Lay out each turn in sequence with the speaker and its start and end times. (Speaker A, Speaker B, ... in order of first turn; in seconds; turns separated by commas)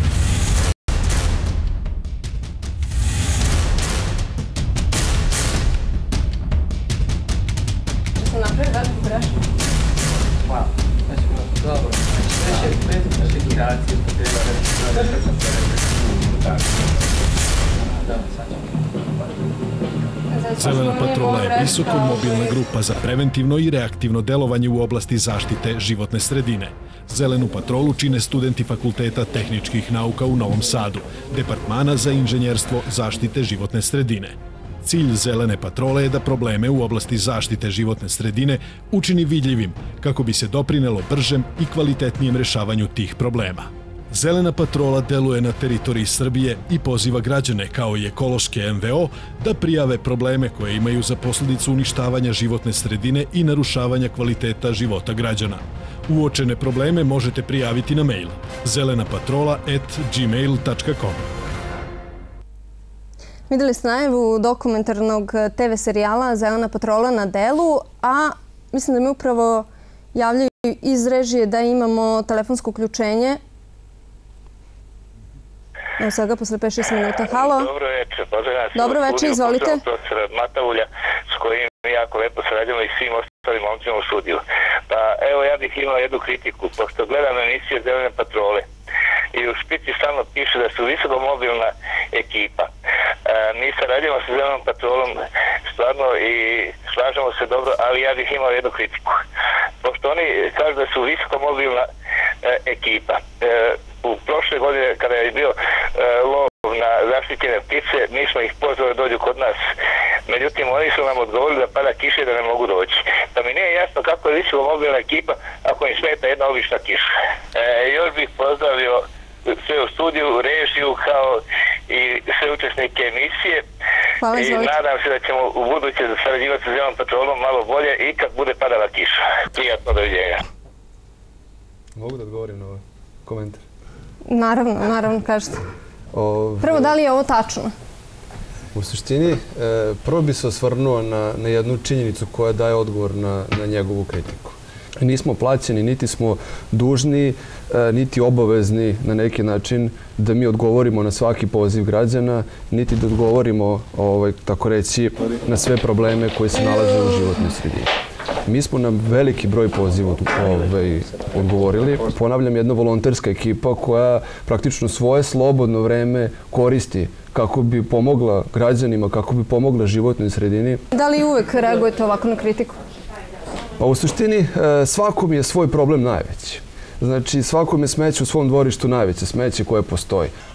Speaker A: 8.2-9.4, Speaker A: 20.3-22.6, Speaker B: 20.6-61.2, Speaker A: 63.5-73.4, Speaker A: 76.0-77.7, Speaker C: 77.2-88.6, Speaker A: 78.8-79.8, Speaker C: 89.3-92.7, Speaker C: 93.2-99.2, Speaker C: 99.8-101.9, Speaker C: 102.4-109.6, Speaker C: 110.3-123.6, Speaker A: 124.2-124.7, Speaker C: 124.3-130.4, Speaker D: 131.9-133.6, Speaker A: 134.3-135.6, Speaker D: 136.1-136.9, Speaker A: 136.6-137.7, Speaker D: 138.7-157.9, Speaker D: 158.4-170.8, Speaker A: 170.9-172.8, Speaker D: 173.8-180.3